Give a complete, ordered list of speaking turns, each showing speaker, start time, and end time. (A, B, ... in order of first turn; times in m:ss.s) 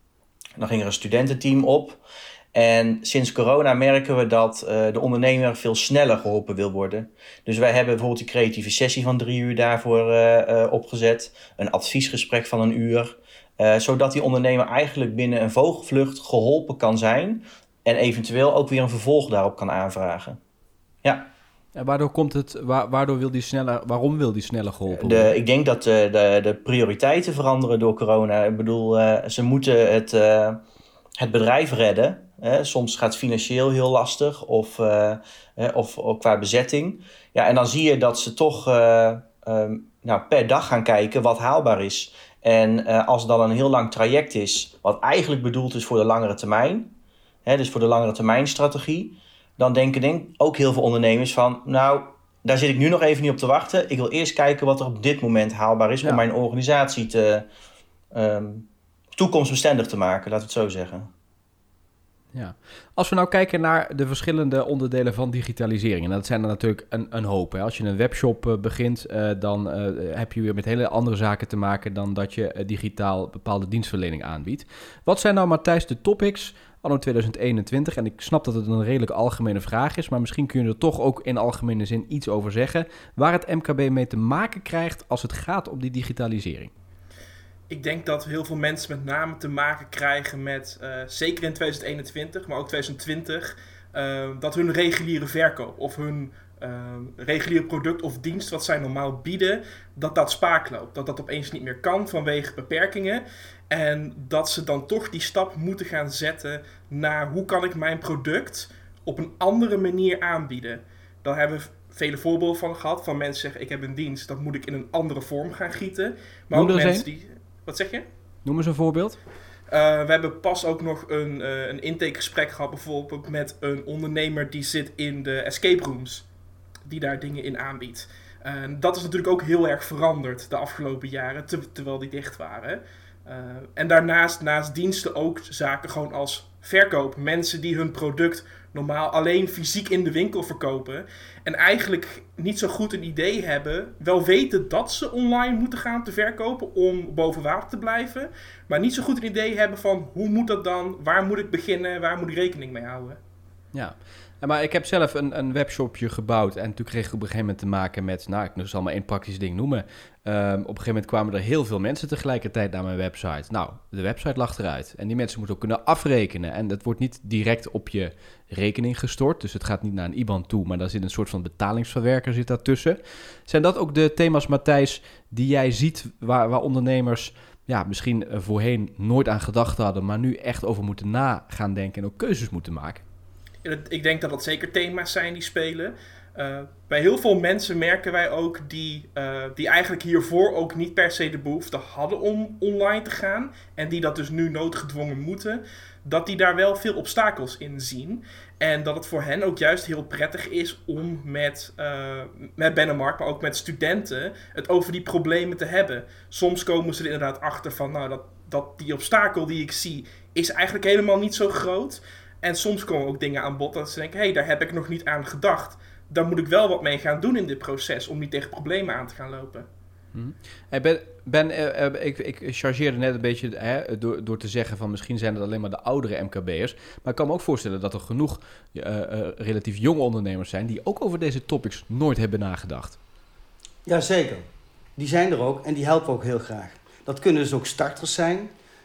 0:00.6-0:02.0 A
0:02.5-0:20.4 A
0:21.0-0:21.3 A
0:21.7-0:25.3 B
0:24.9-0:30.6 A
0:31.2-0:46.9 A
0:47.4-0:57.4 A
0:58.1-1:01.1 A
1:02.3-1:26.7 B
1:27.7-1:58.0 C
1:56.5-1:57.1 B
1:58.4-1:59.2 B
1:59.7-2:06.2 C
2:06.8-2:33.2 C
2:33.7-3:03.0 B
3:03.6-3:39.7 C
3:40.1-3:53.0 B
3:53.8-3:54.4 D
3:55.0-3:58.5 D